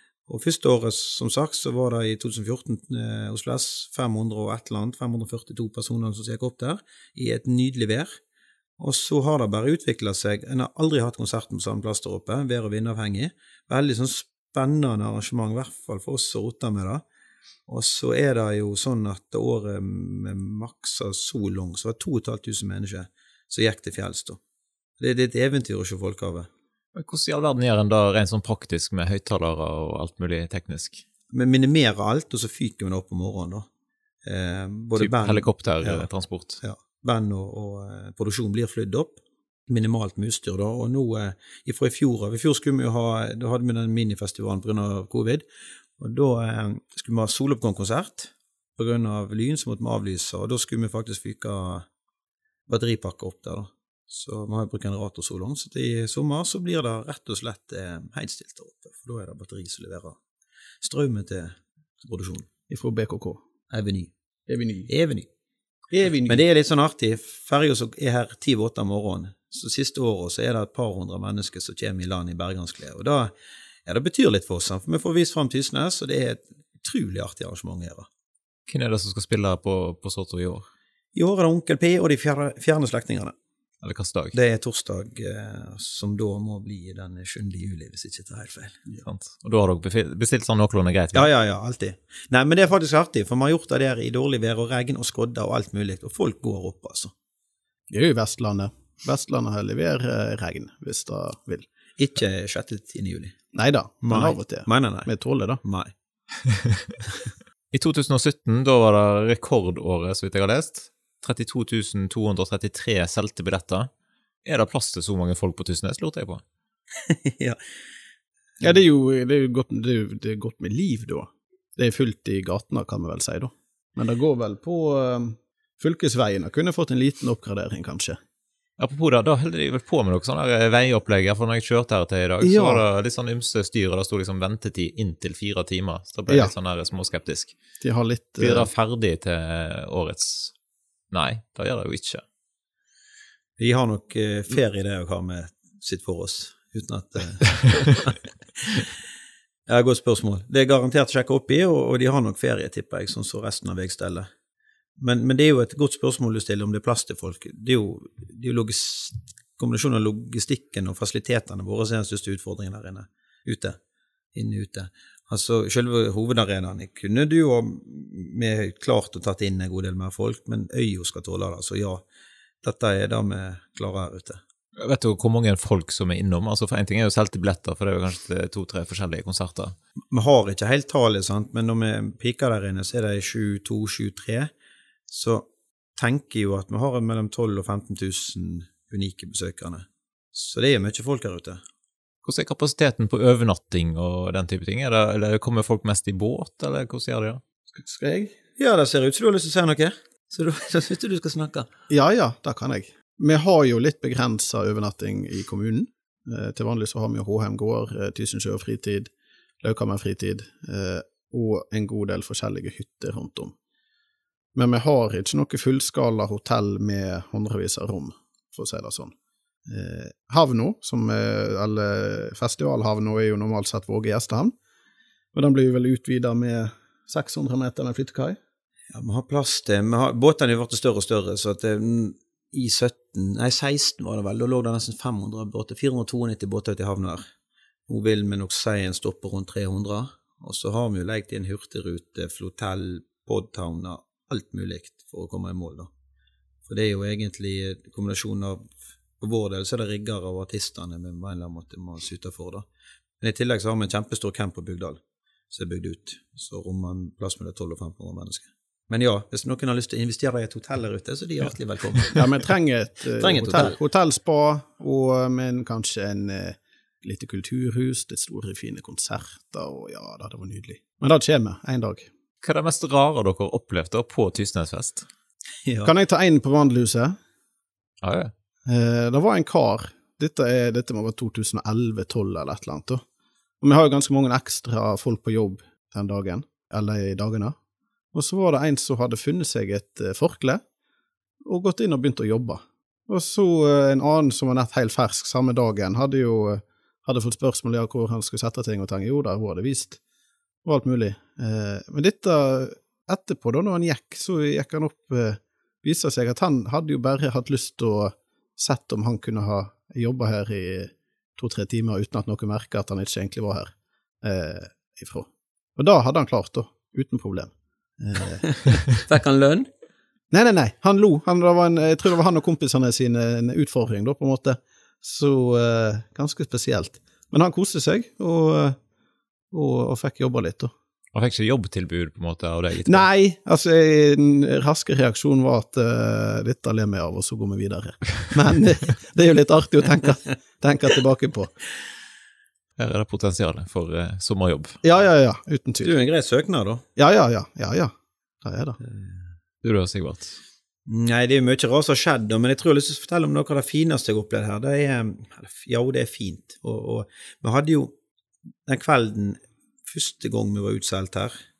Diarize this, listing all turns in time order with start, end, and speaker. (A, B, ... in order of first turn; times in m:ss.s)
0:00.3-0:08.1 A
0:08.8-0:17.0 A
0:17.7-0:24.4 A
0:25.0-0:26.5 A
0:26.9-0:31.0 B
0:31.3-0:33.7 A
0:34.2-0:36.1 A
0:35.0-0:36.6 B
0:36.6-0:45.4 A
0:46.0-0:51.8 A
0:52.7-1:00.2 A
1:00.8-1:02.5 A
1:02.7-1:03.4 C
1:03.7-1:04.1 A
1:04.5-1:04.9 C
1:04.9-1:05.3 A
1:05.9-1:06.4 C
1:06.2-1:13.3 A
1:13.8-1:18.1 A
1:18.7-1:20.7 B
1:21.1-1:23.3 A
1:23.8-1:24.4 B
1:24.3-1:28.8 A
1:29.0-1:31.3 B
1:31.1-1:37.1 A
1:37.9-1:41.6 C
1:42.0-1:43.3 A
1:43.5-1:45.6 C
1:44.0-1:45.1 A
1:45.6-1:45.9 A
1:46.4-1:46.8 B
1:47.7-1:53.9 B
1:54.4-1:56.4 B
1:57.0-1:57.6 A
1:58.6-2:08.2 C
2:08.8-2:17.6 B
2:12.4-2:12.8 C
2:16.3-2:16.5 C
2:17.8-2:18.7 C
2:18.4-2:20.5 B
2:21.1-2:22.2 B
2:23.6-2:28.9 A
2:29.7-2:34.3 A
2:35.0-2:43.8 A
2:44.3-2:52.0 A
2:52.6-2:54.4 A
2:54.8-2:59.8 B
3:00.1-3:04.5 A
3:05.1-3:11.6 A
3:12.2-3:17.4 B
3:17.7-3:18.3 C
3:18.6-3:21.7 A
3:21.9-3:29.1 C
3:29.6-3:33.5 C
3:34.5-3:39.1 C
3:39.7-3:44.5 C
3:45.3-3:48.4 C
3:48.9-3:57.2 A
3:57.9-4:05.9 A
4:06.7-4:12.6 A
4:13.2-4:15.0 A
4:15.5-4:22.3 A
4:22.1-4:32.1 C
4:23.2-4:23.8 A
4:32.4-4:35.0 B
4:35.6-4:35.9 A
4:35.8-4:37.2 C
4:38.0-4:38.3 B
4:38.7-4:43.0 C
4:43.6-4:47.5 C
4:48.1-4:50.6 C
4:51.4-5:00.0 C
5:00.6-5:13.7 C
5:14.2-5:18.5 C
5:18.4-5:19.7 A
5:20.3-5:28.8 C
5:29.5-5:30.7 C
5:31.1-5:33.1 B
5:32.8-5:41.5 C
5:42.8-5:44.8 B
5:44.8-5:46.0 C
5:45.8-5:46.8 A
5:47.0-5:48.8 C
5:48.8-5:49.2 A
5:49.6-5:50.4 B
5:50.8-5:57.9 A
5:58.6-6:01.3 A